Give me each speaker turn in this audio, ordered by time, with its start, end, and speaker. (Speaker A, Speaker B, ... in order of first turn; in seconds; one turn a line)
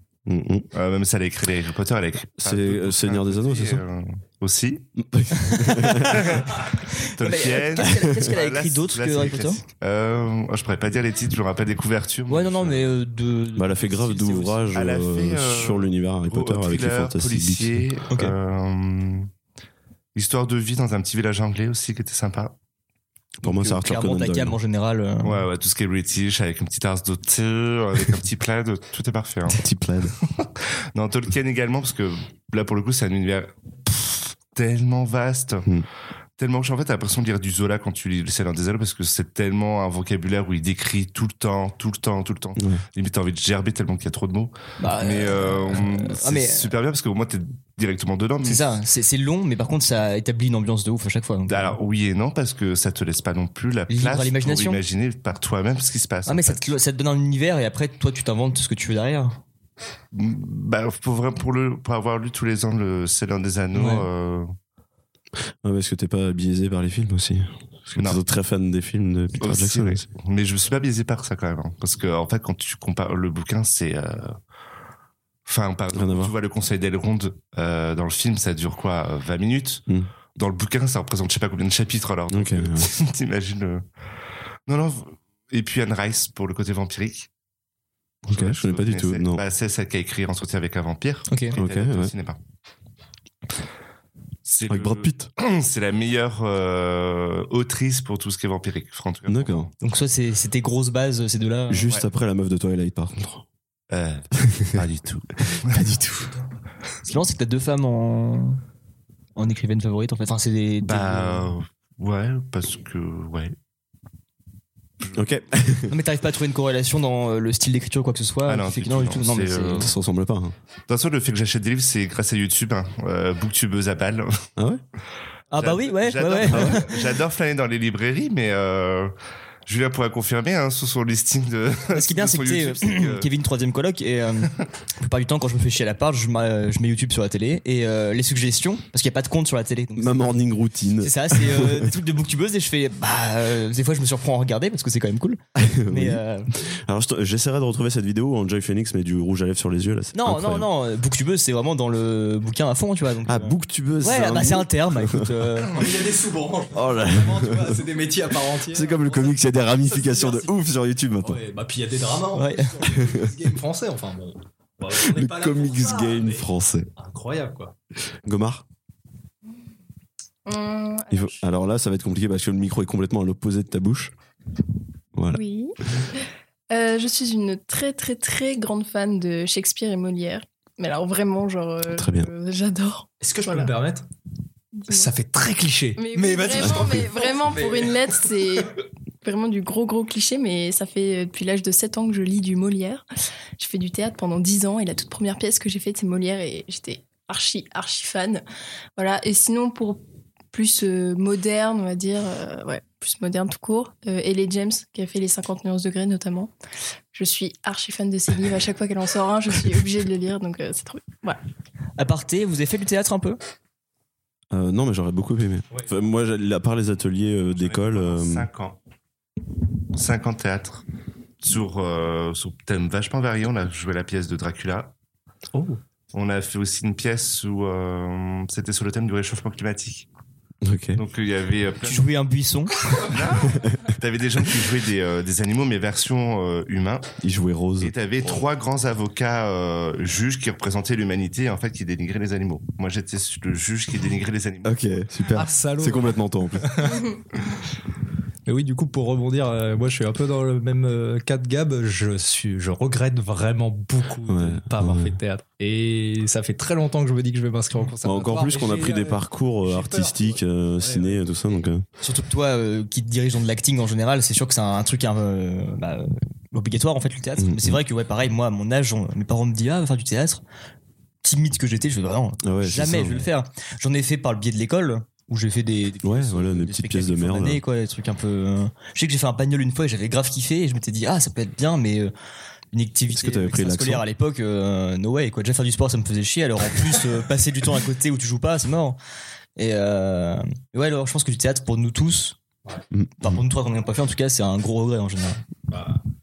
Speaker A: 0.3-0.7
Speaker B: 0.7-4.9
Speaker A: 2.4-3.8
Speaker A: 5.0-6.3
Speaker C: 5.5-9.6
Speaker B: 6.1-13.0
Speaker A: 7.8-8.2
Speaker C: 12.3-14.8
Speaker A: 13.6-17.9
Speaker B: 14.7-19.3
Speaker B: 20.1-22.5
Speaker A: 23.4-24.6
Speaker C: 23.4-25.4
Speaker B: 25.2-29.6
Speaker A: 29.5-30.1
Speaker B: 30.4-35.7
Speaker B: 36.4-48.8
Speaker A: 42.6-42.8
Speaker C: 44.8-46.7
Speaker C: 48.4-51.8
Speaker B: 51.5-56.6
Speaker C: 53.9-54.8
Speaker C: 56.3-59.4
Speaker B: 60.1-64.5
Speaker C: 63.7-64.1
Speaker A: 65.6-70.1
Speaker B: 69.4-74.4
Speaker B: 75.5-79.8
Speaker A: 75.9-76.3
Speaker B: 80.3-83.8
Speaker A: 82.3-82.9
Speaker B: 84.7-87.3
Speaker A: 88.3-89.4
Speaker B: 88.3-92.4
Speaker C: 91.3-91.6
Speaker A: 91.6-92.1
Speaker B: 94.5-99.7
Speaker A: 94.7-95.3
Speaker A: 99.3-99.7
Speaker C: 99.8-101.9
Speaker A: 101.7-103.4
Speaker B: 103.9-105.8
Speaker A: 104.4-104.8
Speaker C: 107.0-108.6
Speaker C: 109.4-111.5
Speaker B: 110.8-113.5
Speaker A: 115.1-115.9
Speaker C: 115.9-119.8
Speaker B: 118.5-120.0
Speaker A: 119.7-120.5
Speaker B: 120.9-124.4
Speaker A: 124.6-124.8
Speaker C: 125.5-126.9
Speaker B: 125.5-129.1
Speaker A: 126.5-126.8
Speaker B: 129.7-133.3
Speaker C: 131.9-140.4
Speaker A: 140.0-141.9
Speaker C: 141.0-146.5
Speaker A: 145.6-150.7
Speaker C: 150.1-155.8
Speaker A: 153.3-155.4
Speaker D: 155.7-160.5
Speaker A: 156.7-157.9
Speaker A: 158.6-161.4
Speaker D: 161.2-167.7
Speaker C: 162.3-162.7
Speaker A: 162.9-163.3
Speaker A: 164.9-166.9
Speaker A: 168.2-168.6
Speaker E: 170.4-171.4
Speaker A: 171.1-174.1
Speaker A: 175.2-175.4
Speaker E: 175.3-183.7
Speaker A: 181.9-182.3
Speaker D: 183.2-184.1
Speaker E: 184.8-185.1
Speaker D: 184.9-188.0
Speaker E: 186.0-193.0
Speaker A: 186.6-187.0
Speaker E: 193.6-198.4
Speaker E: 199.0-200.0
Speaker E: 200.5-206.5
Speaker E: 207.1-211.4
Speaker C: 212.0-213.4
Speaker A: 214.5-218.5
Speaker B: 217.6-218.8
Speaker B: 219.9-220.8
Speaker B: 221.4-224.9
Speaker D: 225.5-225.8
Speaker B: 226.1-230.1
Speaker A: 230.6-231.0
Speaker B: 231.0-232.1
Speaker C: 231.8-232.7
Speaker B: 233.0-237.1
Speaker A: 237.2-237.9
Speaker B: 237.8-244.9
Speaker A: 244.6-246.7
Speaker D: 245.4-247.1
Speaker D: 248.5-261.2
Speaker A: 254.3-255.2
Speaker A: 258.0-261.8
Speaker C: 262.0-270.4
Speaker A: 267.4-267.8
Speaker C: 271.2-282.1
Speaker A: 272.4-273.3
Speaker A: 276.0-277.6
Speaker C: 282.7-289.0
Speaker A: 283.1-284.0
Speaker C: 289.6-292.4
Speaker A: 292.9-293.4
Speaker C: 293.2-295.4
Speaker D: 295.7-296.0